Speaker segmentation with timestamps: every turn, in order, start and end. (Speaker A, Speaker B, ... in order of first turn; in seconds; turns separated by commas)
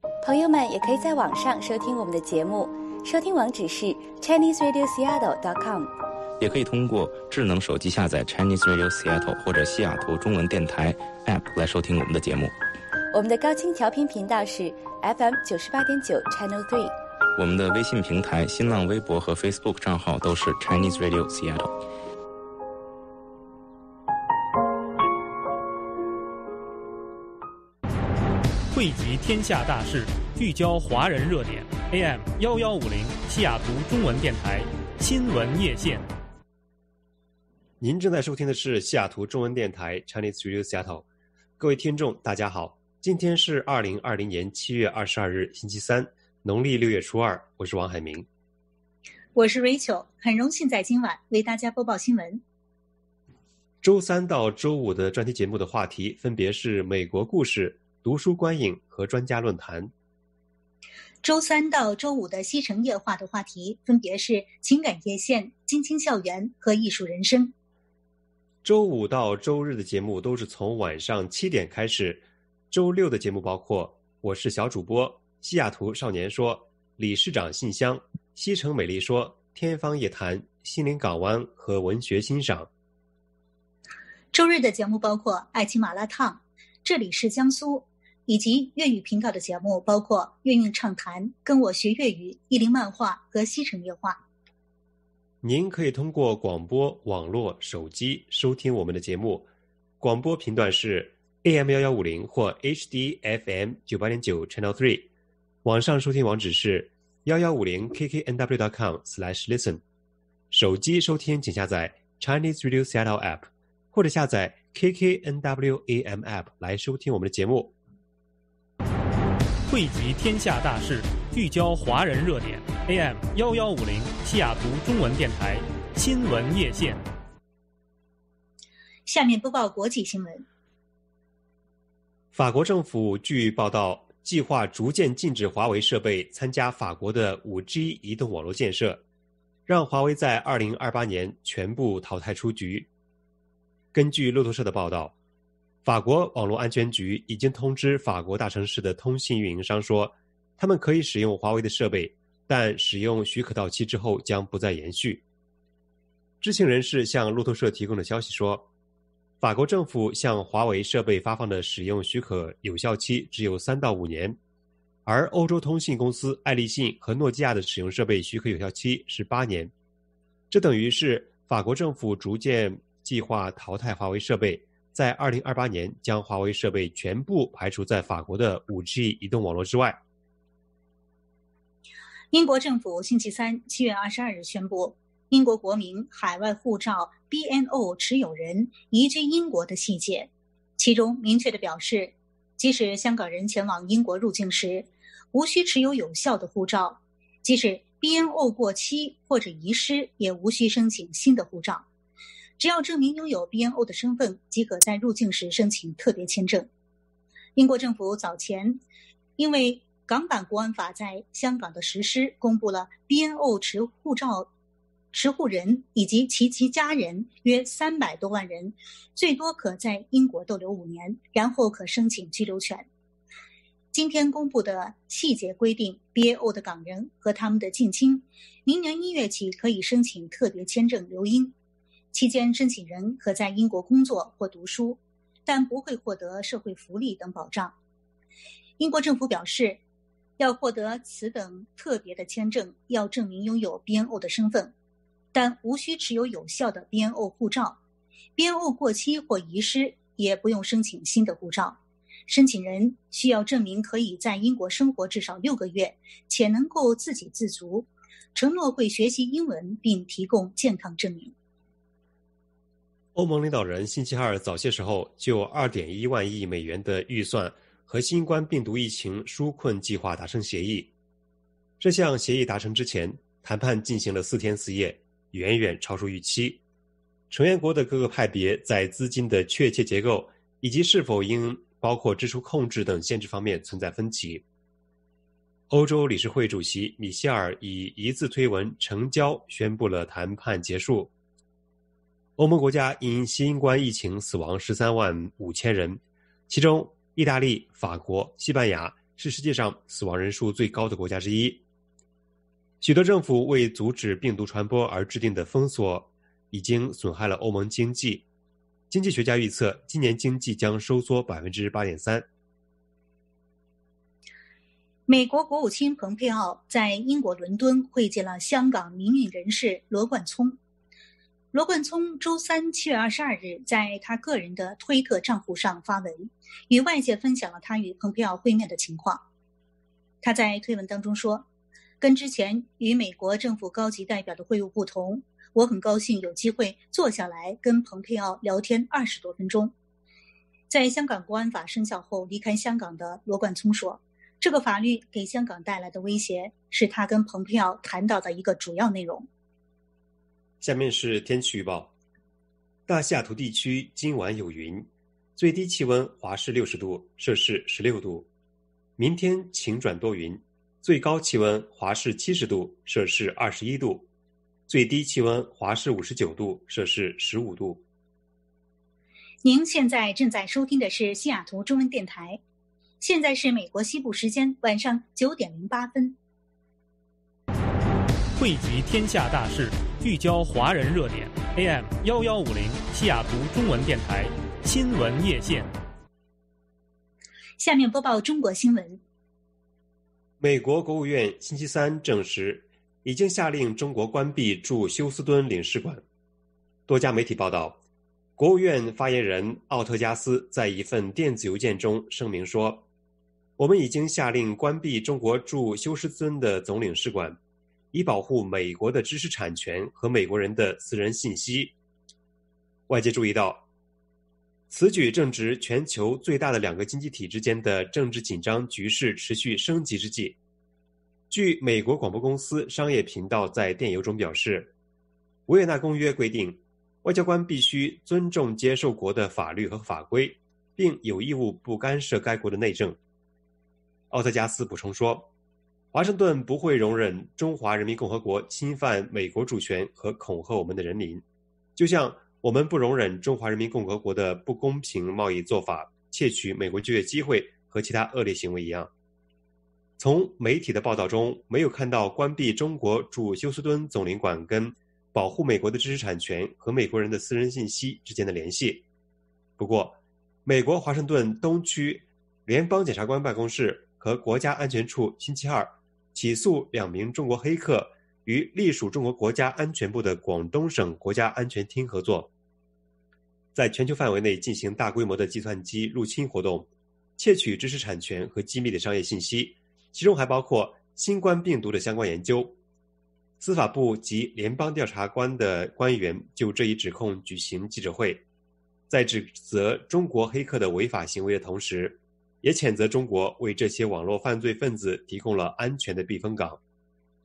Speaker A: 0.2-5.9, Speaker B: 6.4-12.5, Speaker A: 13.1-16.9, Speaker B: 17.4-21.7, Speaker C: 28.7-36.1, Speaker D: 37.8-41.0, Speaker D: 41.6-48.3, Speaker E: 49.4-52.4, Speaker D: 53.8-59.9, Speaker E: 61.2-67.5, Speaker D: 68.6-82.7, Speaker E: 84.3-94.2, Speaker D: 95.4-99.5, Speaker D: 100.0-105.1, Speaker D: 105.6-109.8, Speaker D: 110.5-117.7, Speaker C: 119.7-127.0, Speaker E: 129.1-130.4, Speaker D: 132.3-139.0, Speaker D: 139.7-142.9, Speaker D: 143.9-145.1, Speaker D: 145.8-155.2, Speaker D: 156.4-158.7, Speaker D: 159.4-164.4, Speaker D: 165.1-169.7, Speaker D: 170.5-180.0, Speaker E: 182.3-201.8, Speaker E: 202.6-206.7, Speaker E: 207.5-208.8, Speaker E: 209.4-214.5, Speaker E: 215.1-222.9, Speaker E: 223.9-231.5, Speaker E: 232.1-237.7, Speaker E: 238.8-239.8, Speaker E: 240.4-244.7, Speaker E: 245.3-247.8, Speaker E: 248.3-261.3, Speaker D: 263.1-270.9, Speaker D: 271.8-276.6, Speaker D: 277.3-284.4, Speaker D: 285.7-291.1, Speaker D: 292.4-301.6, Speaker D: 302.8-308.2, Speaker D: 308.9-312.2, Speaker E: 315.1-320.6, Speaker E: 321.5-329.2, Speaker E: 330.2-331.4, Speaker E: 332.0-339.7, Speaker E: 340.7-349.3, Speaker D: 350.6-351.9, Speaker D: 352.9-358.3, Speaker D: 359.0-364.1, Speaker D: 364.7-367.8, Speaker E: 369.4-372.4, Speaker E: 373.0-376.2, Speaker C: 378.4-385.7, Speaker E: 387.6-389.0, Speaker D: 390.4-396.0, Speaker D: 396.9-397.8, Speaker D: 398.4-402.9, Speaker D: 403.6-407.4, Speaker D: 407.9-411.7, Speaker D: 412.9-413.6, Speaker D: 414.7-420.4, Speaker D: 421.3-424.7, Speaker D: 425.5-433.0, Speaker D: 434.1-435.3, Speaker D: 435.9-441.2, Speaker D: 441.8-448.9, Speaker D: 450.0-458.8, Speaker D: 459.6-472.3, Speaker D: 473.5-482.6, Speaker D: 483.4-488.2, Speaker D: 488.9-496.6